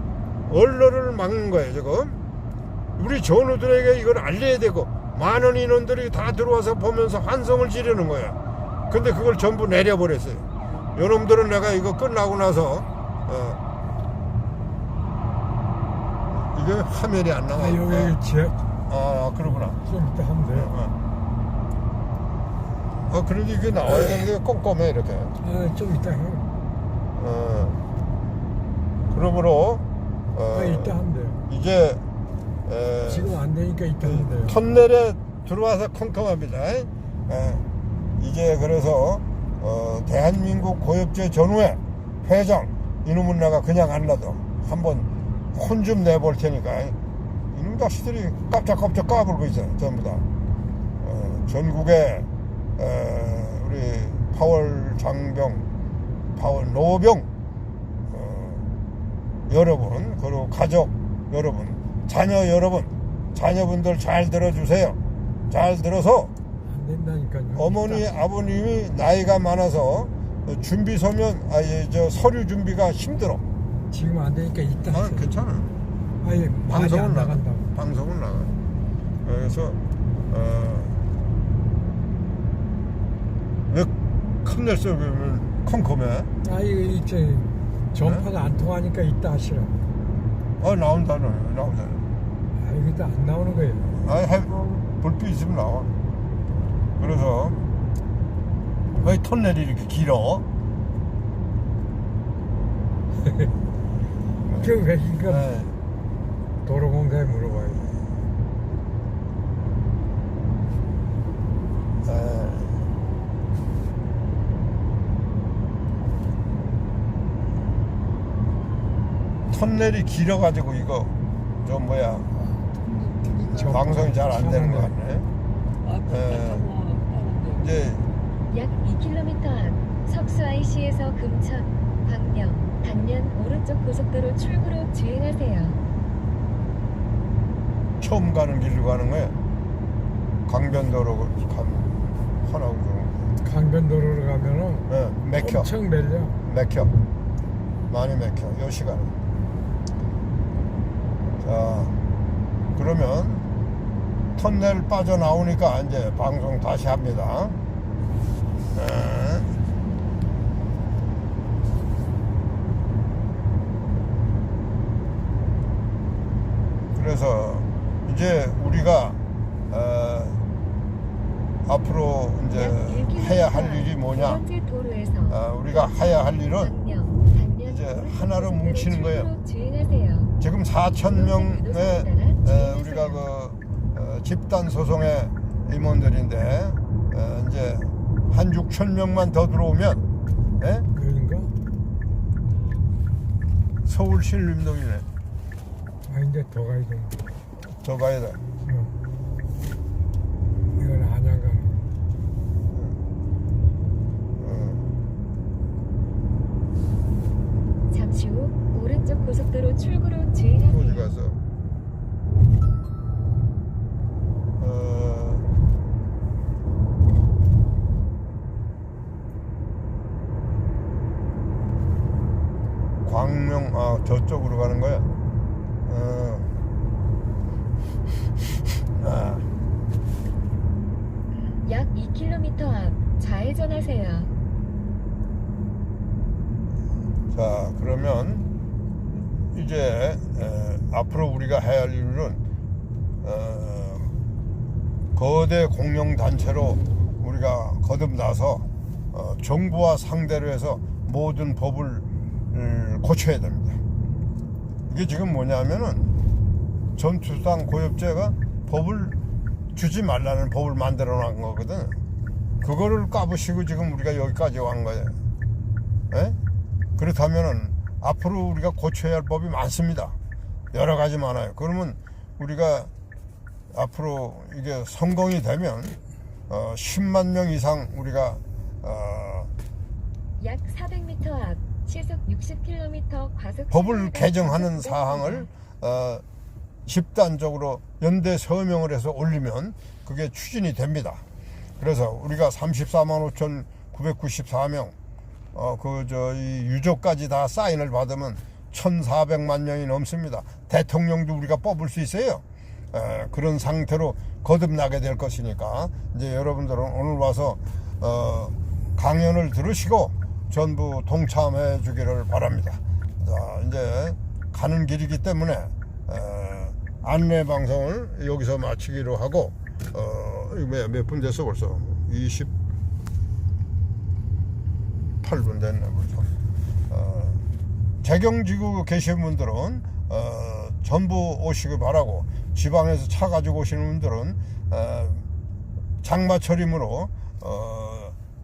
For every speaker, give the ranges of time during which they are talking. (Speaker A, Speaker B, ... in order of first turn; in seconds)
Speaker A: 0.5-2.2, 3.0-8.4, 8.9-10.4, 10.9-13.6, 16.3-18.2, 18.9-19.8, 20.5-20.9, 23.1-25.3, 27.1-27.8, 29.1-29.8, 30.3-32.0, 32.7-33.3, 34.0-37.6, 38.2-46.9, 47.5-50.2, 51.0-55.6, 56.4-57.3, 58.1-58.6, 59.5-65.0, 65.5-66.3, 67.5-73.4, 74.9-75.7, 76.7-78.5, 79.2-79.8, 80.3-81.0, 84.4-86.3, 88.0-88.3, 90.6-92.0, 94.0-95.9, 97.0-97.6, 99.0-100.4, 104.5-104.7, 105.2-105.7, 112.0-112.9, 119.5-121.1, 121.6-122.5, 123.7-125.3, 126.1-126.7, 127.6-128.0, 138.0-139.3, 140.5-143.3, 144.9-145.7, 146.4-146.9, 147.9-149.1, 151.4-151.9, 152.7-153.4, 154.3-157.6, 158.7-159.5, 166.9-169.2, 169.7-170.4, 171.7-174.4, 175.3-176.7, 177.6-179.3, 180.4-190.0, 190.6-190.8, 193.8-195.1, 197.7-198.4, 204.4-204.8, 210.7-211.4, 214.6-215.4, 223.0-225.1, 225.8-226.5, 228.9-229.4, 237.3-238.5, 239.5-242.4, 243.2-244.1, 245.2-253.8, 254.9-256.1, 256.9-259.1, 259.7-261.9, 262.6-265.1, 266.1-266.4, 267.0-270.1, 270.7-272.9, 273.7-276.0, 276.5-279.5, 283.7-286.2, 286.9-291.2, 291.8-294.9, 295.5-322.5, 325.2-326.3, 326.9-327.4, 328.0-335.2, 336.0-338.1
Speaker B: 17.6-18.6, 19.4-20.7, 25.4-26.5, 30.5-31.4, 33.1-34.6, 66.6-68.1, 73.9-75.3, 76.2-77.7, 86.4-89.8, 92.5-93.9, 104.6-105.5, 106.6-107.9, 123.5-124.9, 143.4-144.9, 145.4-146.3, 190.9-191.5, 196.1-197.3, 198.6-198.9, 200.8-201.8
Speaker C: 122.7-123.8, 125.8-127.7
Speaker D: 128.5-135.8, 172.5-180.3, 181.0-183.2, 207.9-211.1, 231.6-234.3, 280.4-285.5